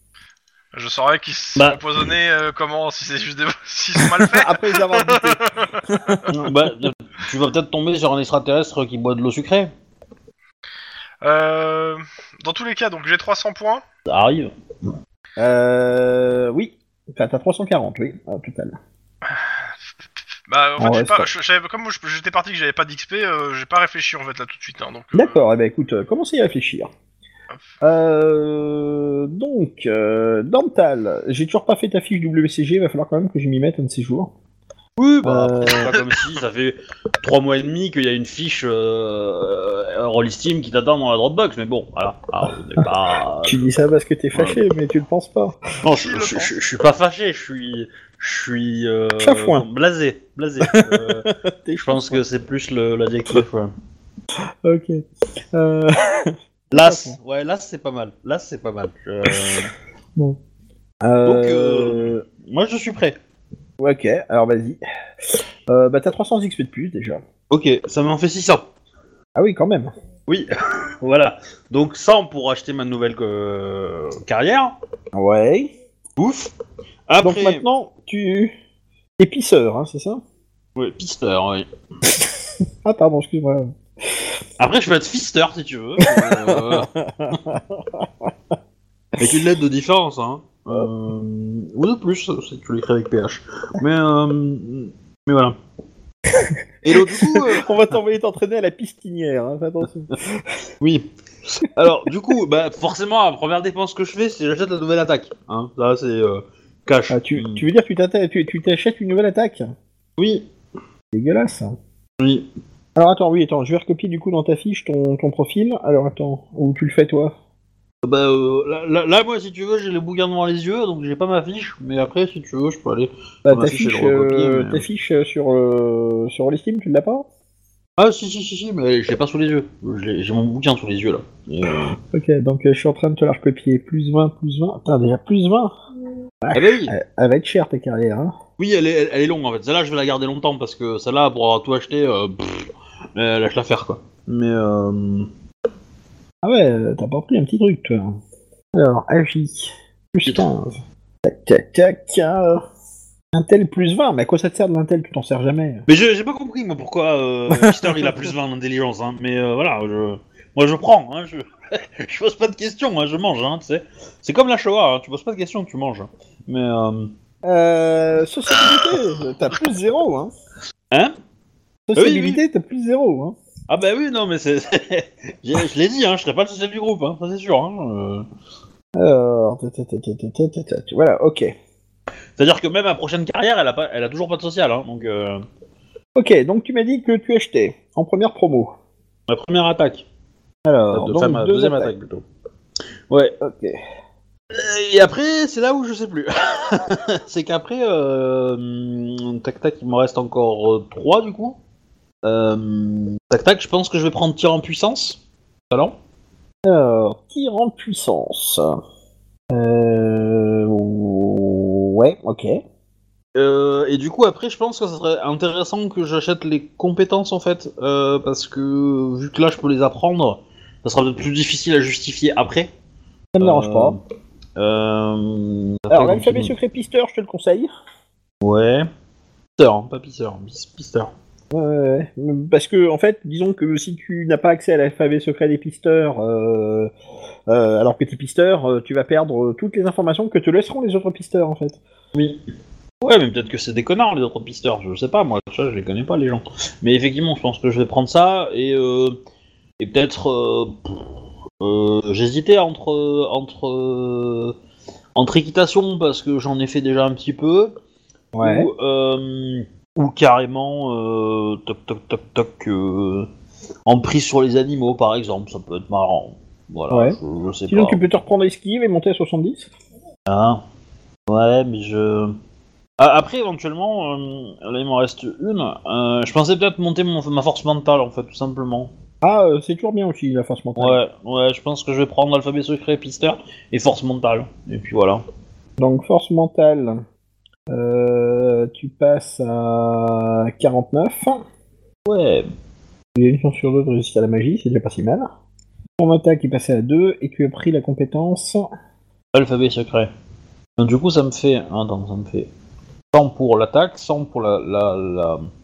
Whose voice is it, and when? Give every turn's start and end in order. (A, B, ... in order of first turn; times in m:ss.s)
0:00.7-0:06.3 A
0:01.6-0:02.0 B
0:04.2-0:05.4 C
0:05.9-0:06.3 C
0:06.3-0:09.7 B
0:11.2-0:13.8 A
0:14.1-0:14.5 B
0:15.4-0:18.8 C
0:20.5-0:25.4 A
0:20.8-0:21.3 C
0:25.1-0:26.9 C
0:27.8-0:34.3 C
0:35.0-0:43.7 B
0:35.2-0:35.9 C
0:43.4-0:45.6 C
0:44.3-0:44.6 B
0:45.8-0:51.3 B
0:45.9-0:46.6 A
0:49.2-0:49.7 C
0:50.6-0:52.2 C
0:51.8-0:53.7 B
0:54.6-0:57.2 C
0:56.7-0:59.7 B
0:59.2-0:59.6 C
1:01.0-1:02.2 C
1:01.2-1:03.2 B
1:03.8-1:04.8 C
1:05.7-1:07.2 C
1:07.5-1:08.7 B
1:09.4-1:09.9 C
1:10.3-1:14.7 B
1:15.1-1:15.7 C
1:16.2-1:16.5 B
1:17.1-1:17.6 B
1:17.2-1:18.6 C
1:19.2-1:20.2 C
1:20.8-1:21.7 B
1:22.8-1:24.2 C
1:24.6-1:26.9 B
1:26.0-1:28.3 C
1:29.2-1:35.6 B
1:36.3-1:40.4 C
1:36.8-1:37.7 B
1:40.8-1:47.6 B
1:47.1-1:49.7 C
1:50.2-1:50.5 B
1:51.1-1:51.8 C
1:52.2-1:52.5 B
1:53.0-1:57.4 C
1:58.0-2:04.8 B
2:03.5-2:07.3 C
2:08.0-2:12.0 B
2:12.0-2:15.8 C
2:16.4-2:18.4 C
2:16.5-2:17.0 B
2:18.6-2:25.3 B
2:26.4-2:28.2 C
2:28.7-2:32.6 C
2:33.3-2:35.8 C
2:35.9-2:47.1 B
2:37.5-2:38.3 C
2:47.4-2:50.3 C
2:51.9-2:53.4 C
2:52.0-2:52.4 B
2:53.7-2:58.3 B
2:59.0-3:01.5 C
3:02.4-3:05.4 B
3:06.2-3:08.8 C
3:09.3-3:10.1 B
3:10.6-3:11.9 C
3:10.9-3:12.2 B
3:13.1-3:13.4 B
3:13.4-3:13.8 C
3:14.5-3:21.6 B
3:22.2-3:26.0 B
3:26.6-3:28.7 C
3:29.5-3:32.6 C
3:33.4-3:42.7 B
3:43.4-3:44.0 C
3:43.4-3:44.0 B
3:44.6-3:46.6 B
3:45.9-3:47.7 C
3:48.4-3:48.9 B
3:49.6-3:51.1 B
3:51.5-3:56.9 C
3:57.5-4:01.8 C
4:02.1-4:02.4 B
4:03.0-4:09.2 B
4:09.8-4:11.1 B
4:11.6-4:14.6 B
4:15.2-4:17.8 B
4:18.4-4:18.7 C
4:18.4-4:23.3 B
4:23.9-4:28.0 B
4:26.9-4:27.2 C
4:27.7-4:29.7 C
4:30.3-4:30.6 B
4:31.3-4:32.4 B
4:33.0-4:38.9 B
4:39.2-4:41.0 C
4:40.8-4:45.2 B
4:45.8-4:47.0 C
4:47.7-4:51.4 C
4:52.1-4:52.5 B
4:53.2-4:55.3 C
4:56.0-4:58.7 C
4:59.3-5:00.1 B
5:00.8-5:02.5 B
5:03.1-5:05.4 B